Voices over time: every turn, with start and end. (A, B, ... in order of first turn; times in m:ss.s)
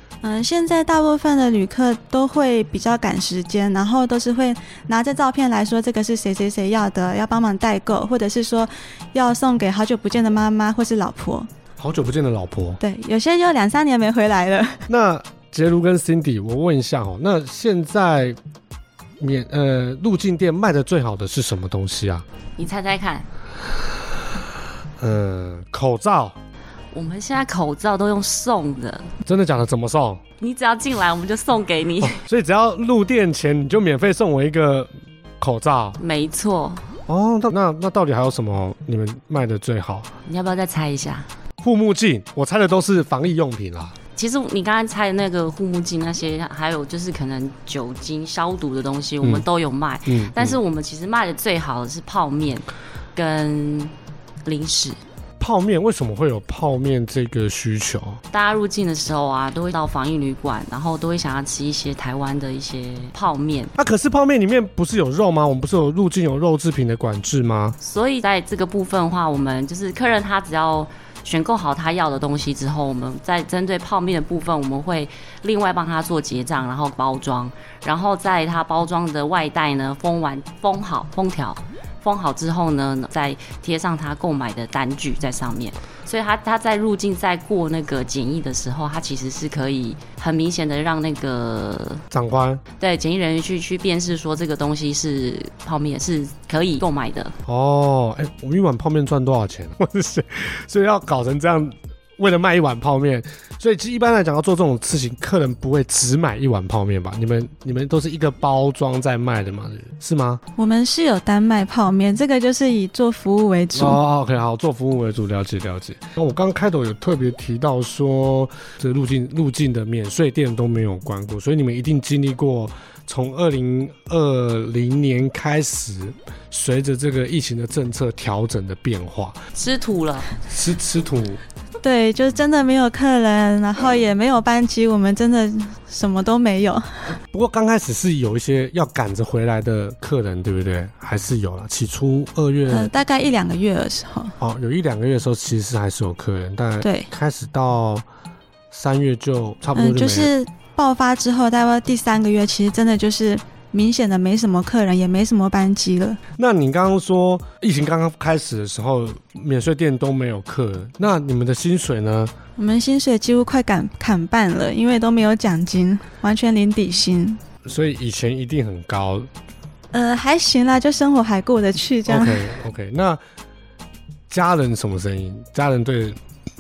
0:00.2-0:11.5 A
0:11.8-0:12.8 B
0:12.8-0:14.9 A
0:14.9-0:18.4 B
0:19.2-0:22.2 B
0:22.6-0:23.3 C
0:25.0-0:26.4 B
0:26.9-0:29.1 C
0:29.2-0:30.2 B
0:30.4-0:32.2 C
0:32.0-0:36.0 B
0:36.0-0:36.8 C
0:37.1-0:40.1 B
0:40.2-0:41.3 C
0:41.6-0:44.0 B
0:44.2-0:53.9 C
0:50.1-0:50.6 B
0:54.4-0:55.0 C
0:55.4-0:58.2 B
0:58.3-1:03.7 C
1:03.8-1:07.8 B
1:07.8-1:32.0 C
1:32.1-1:32.6 B
1:32.8-1:37.3 C
1:37.4-1:50.4 B
1:50.6-1:54.0 A
1:53.7-2:09.4 B
2:09.6-2:10.3 C
2:10.5-2:11.4 B
2:11.8-2:16.8 A
2:17.3-2:22.9 B
2:22.7-2:24.4 A
2:24.4-2:28.0 B
2:26.8-2:27.1 A
2:28.7-2:30.3 B
2:29.8-2:36.2 A
2:36.4-2:42.3 B
2:42.6-2:47.4 A
2:47.6-2:49.3 B
2:49.9-2:52.6 A
2:52.1-2:53.2 B
2:54.3-2:56.2 B